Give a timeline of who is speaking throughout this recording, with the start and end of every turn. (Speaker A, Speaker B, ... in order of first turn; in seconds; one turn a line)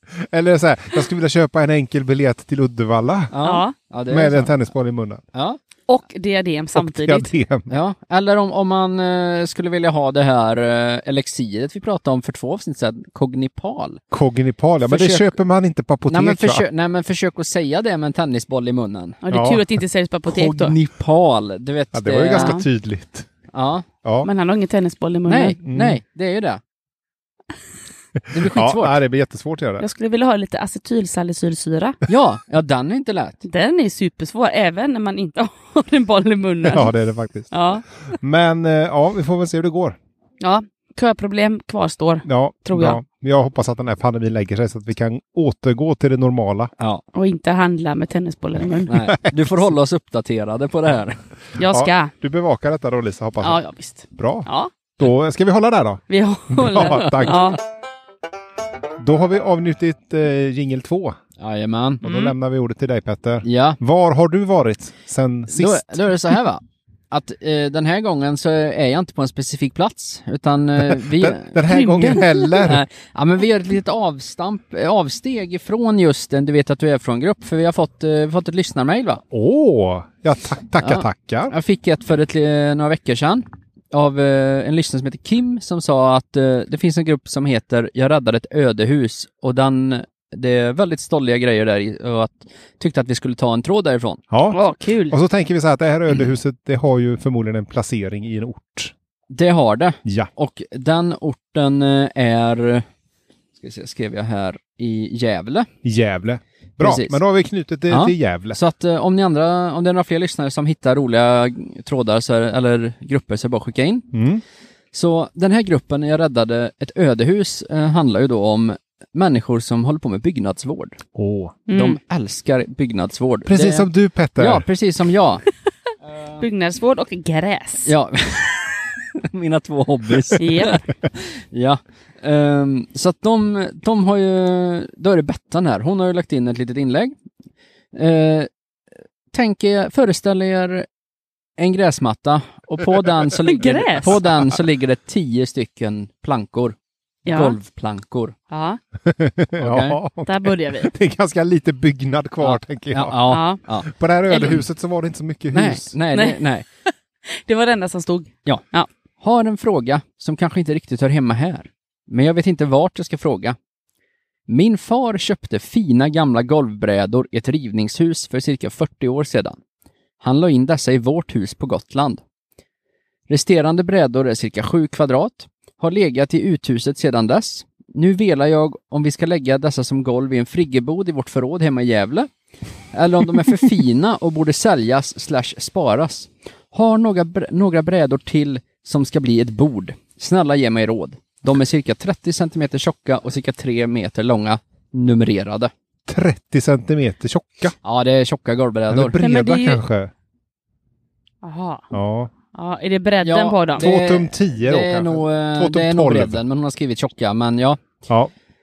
Speaker A: 0.2-3.3
Speaker B: 3.3-4.5
Speaker C: 3.4-3.7
Speaker A: 4.1-5.2
Speaker B: 5.3-5.6
Speaker C: 5.9-7.3
Speaker A: 6.7-7.7
Speaker B: 7.7-14.0
Speaker A: 14.1-16.6
Speaker B: 14.8-15.3
Speaker B: 16.1-19.2
Speaker C: 19.2-20.8
Speaker A: 19.3-19.6
Speaker B: 20.3-22.6
Speaker A: 21.9-23.3
Speaker C: 22.3-22.6
Speaker B: 23.5-23.8
Speaker C: 24.2-25.6
Speaker B: 25.3-26.6
Speaker A: 25.6-26.0
Speaker B: 28.3-28.9
Speaker A: 28.4-29.9
Speaker C: 29.8-32.0
Speaker B: 32.1-33.4
Speaker C: 33.4-36.9
Speaker A: 36.6-37.5
Speaker C: 37.5-37.8
Speaker A: 38.1-40.0
Speaker C: 40.4-43.0
Speaker A: 42.2-46.7
Speaker C: 47.1-49.0
Speaker B: 48.9-51.2
Speaker C: 51.6-52.1
Speaker A: 51.6-53.6
Speaker C: 53.4-54.7
Speaker A: 54.1-57.5
Speaker C: 56.1-57.6
Speaker A: 59.0-61.2
Speaker B: 61.4-62.0
Speaker A: 62.0-65.9
Speaker C: 62.0-62.3
Speaker B: 63.4-63.8
Speaker B: 65.5-79.2
Speaker A: 70.8-72.8
Speaker C: 71.7-72.6
Speaker A: 79.3-81.5
Speaker B: 80.8-94.2
Speaker A: 94.3-94.6
Speaker C: 94.5-95.2
Speaker A: 95.1-98.9
Speaker B: 99.3-102.8
Speaker A: 100.0-100.3
Speaker B: 103.6-105.7
Speaker A: 105.8-108.6
Speaker B: 106.8-107.2
Speaker B: 107.9-114.1
Speaker A: 114.1-114.4
Speaker B: 114.9-121.0
Speaker A: 121.1-121.6
Speaker C: 121.7-122.0
Speaker B: 121.7-123.9
Speaker A: 123.5-124.7
Speaker B: 124.4-125.4
Speaker B: 126.1-126.4
Speaker C: 126.4-127.9
Speaker B: 127.8-137.1
Speaker C: 130.3-130.8
Speaker B: 137.9-138.5
Speaker B: 139.3-140.8
Speaker B: 141.6-146.8
Speaker C: 143.4-144.2
Speaker A: 144.2-144.6
Speaker C: 147.2-147.6
Speaker B: 147.3-148.3
Speaker C: 148.5-148.8
Speaker A: 149.0-153.3
Speaker B: 149.6-150.0
Speaker C: 150.2-150.9
Speaker B: 152.4-153.9
Speaker C: 153.3-153.6
Speaker A: 153.8-155.9
Speaker B: 155.5-156.6
Speaker C: 156.1-158.9
Speaker B: 159.2-163.6
Speaker B: 164.5-169.6
Speaker B: 170.2-172.2
Speaker B: 173.3-182.3
Speaker B: 182.9-195.7
Speaker A: 196.1-197.7
Speaker B: 197.8-199.1
Speaker A: 198.9-200.1
Speaker C: 199.2-199.8
Speaker C: 201.4-201.9
Speaker A: 201.9-202.3
Speaker C: 202.5-203.9
Speaker B: 203.2-207.8
Speaker A: 203.8-206.4
Speaker A: 208.1-208.3